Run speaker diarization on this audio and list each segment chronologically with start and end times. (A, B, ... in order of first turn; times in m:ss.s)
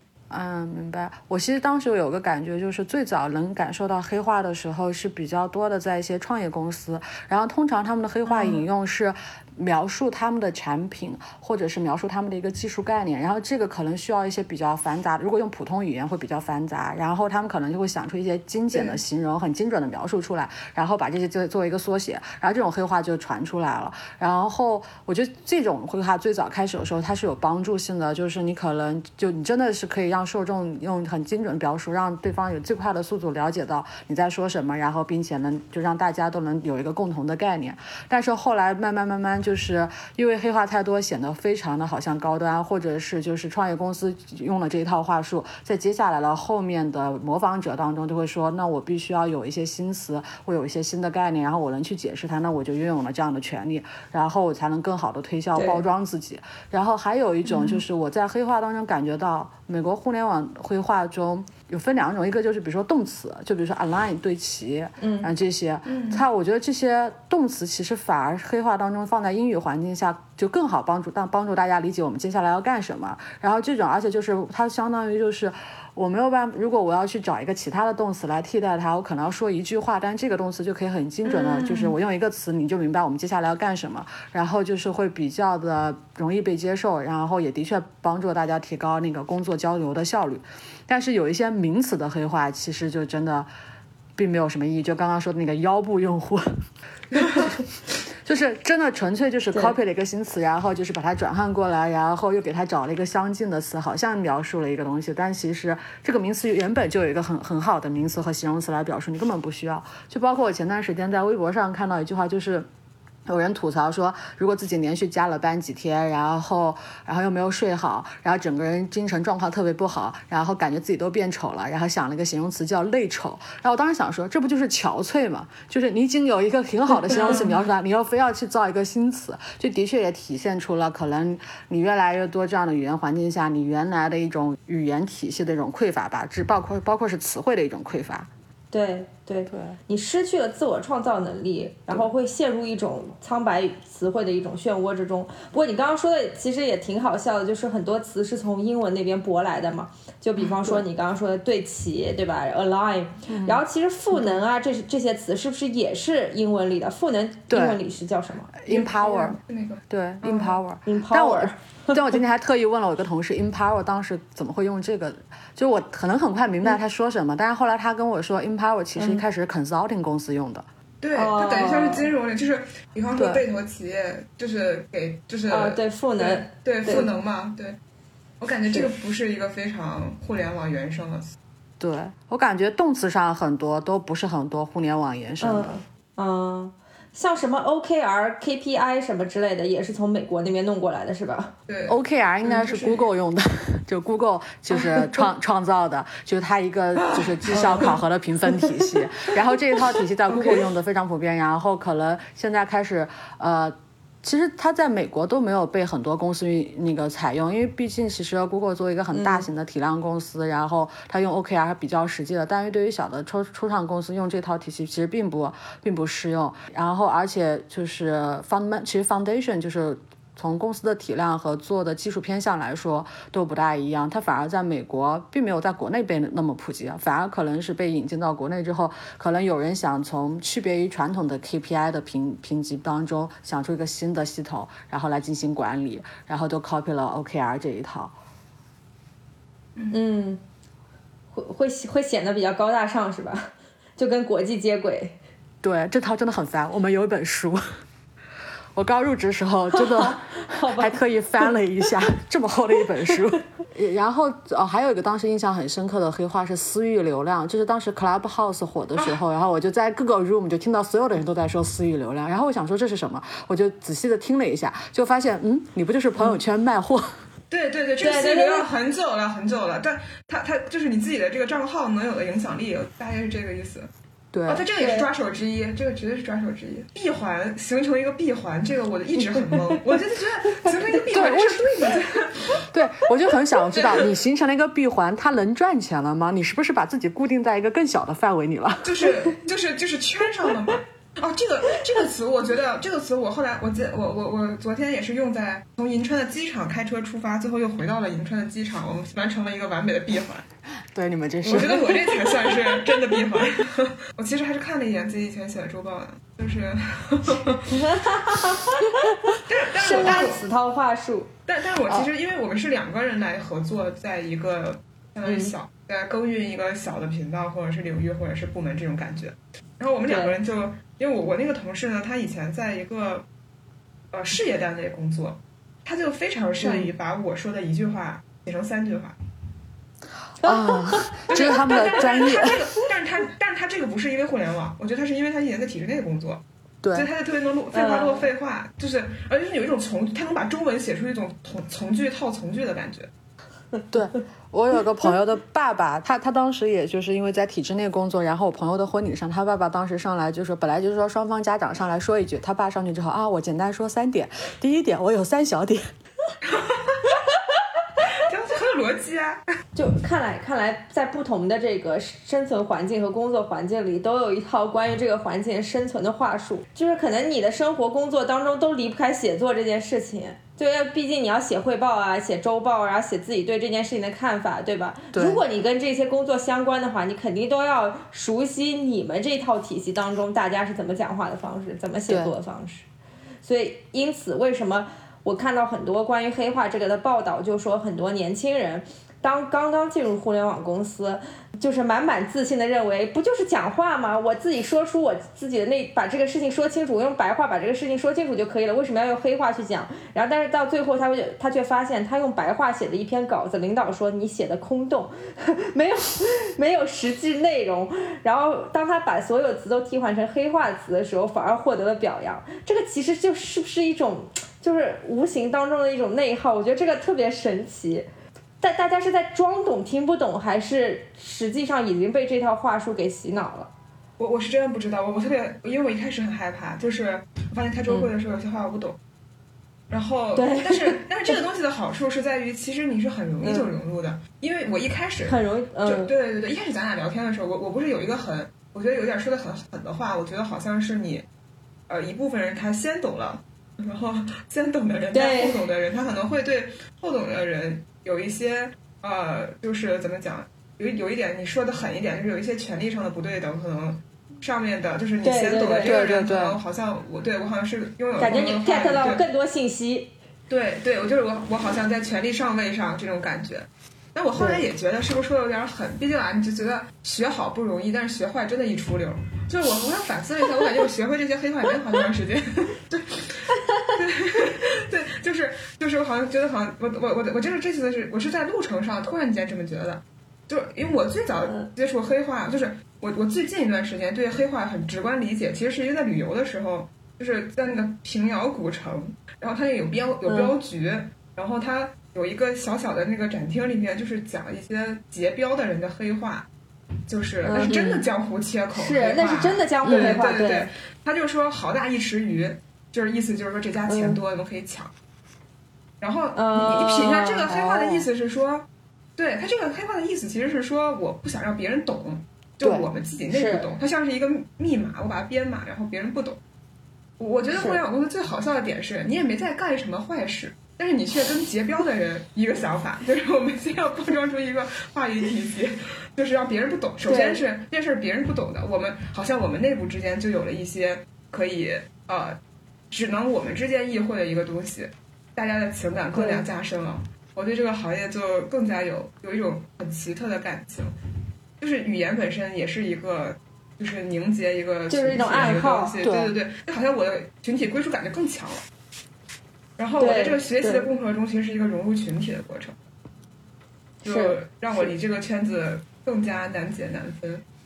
0:00.3-1:33.5 A
0:08.3-0:08.6 B
0:18.7-0:19.0 B
0:55.6-0:55.8 C
0:57.4-0:57.8 B
1:05.0-1:05.3 C
1:05.9-1:06.2 B
1:21.3-1:21.9 B
1:34.2-1:36.5 A
1:37.1-1:37.6 A
1:38.2-1:52.7 A
1:53.3-2:18.3 A
2:07.1-2:07.5 C
2:07.1-2:07.5 B
2:18.7-2:38.5 C
2:19.5-2:19.8 A
2:33.3-2:33.6 A
2:37.5-2:37.8 A
2:38.6-2:39.4 A
2:38.7-2:40.6 B
2:39.9-2:50.7 A
2:40.9-2:42.2 C
2:49.0-2:49.2 C
2:51.0-2:57.8 B
2:51.2-2:52.1 C
2:53.2-2:53.4 A
2:55.5-2:57.1 C
2:58.4-3:01.4 B
3:01.8-3:05.8 A
3:05.4-3:11.5 C
3:11.7-3:13.0 B
3:11.9-3:58.2 A
3:17.5-3:17.8 C
3:29.1-3:29.5 C
3:59.9-4:00.4 C
4:01.3-4:05.2 C
4:05.6-4:07.6 A
4:08.8-4:27.2 A
4:09.8-4:11.0 C
4:27.5-4:33.9 B
4:28.0-4:28.7 C
4:34.3-4:34.7 A
4:34.5-4:42.6 B
4:34.8-4:35.1 C
4:41.1-4:41.6 A
4:42.7-4:49.0 A
4:48.8-5:00.4 B
5:00.9-5:01.9 A
5:01.4-5:01.9 C
5:01.5-5:07.7 B
5:07.8-5:09.0 C
5:09.5-5:10.4 B
5:09.8-5:11.3 C
5:11.5-5:23.2 B
5:15.2-5:15.5 C
5:20.1-5:20.4 C
5:24.1-5:29.2 B
5:30.4-5:32.6 A
5:30.4-5:32.1 C
5:31.3-5:36.4 B
5:36.8-5:37.1 A
5:36.9-5:43.1 B
5:37.7-5:38.3 C
5:43.9-5:55.9 A
5:56.5-5:57.0 B
5:58.1-5:59.4 B
5:59.8-6:22.9 C
6:15.1-6:15.4 A
6:22.1-6:22.3 A
6:23.4-6:58.1 C
6:58.6-7:03.7 C
7:04.2-7:09.0 B
7:09.9-7:21.2 B
7:10.4-7:11.0 C
7:13.4-7:13.7 C
7:15.3-7:16.1 C
7:21.9-7:39.2 B
7:25.1-7:25.6 C
7:35.2-7:36.3 C
7:35.8-7:36.6 A
7:38.2-7:40.1 C
7:40.5-8:16.5 B
7:44.4-7:44.6 C
8:10.3-8:10.5 C
8:17.1-8:24.9 B
8:17.4-8:17.8 C
8:17.6-8:18.1 A
8:18.8-8:20.7 C
8:19.8-8:20.2 A
8:23.9-8:24.2 C
8:26.0-8:28.7 B
8:26.4-8:27.6 C
8:29.2-8:36.4 B
8:33.3-8:33.7 C
8:37.2-8:52.4 B
8:37.6-8:37.8 C
8:47.1-8:47.4 C
8:52.9-9:00.9 B
8:56.1-8:56.5 C
9:01.6-9:08.6 B
9:04.9-9:06.0 C
9:06.0-9:06.4 A
9:09.8-9:12.8 B
9:10.0-9:10.9 C
9:14.0-9:17.4 B
9:14.1-9:14.9 C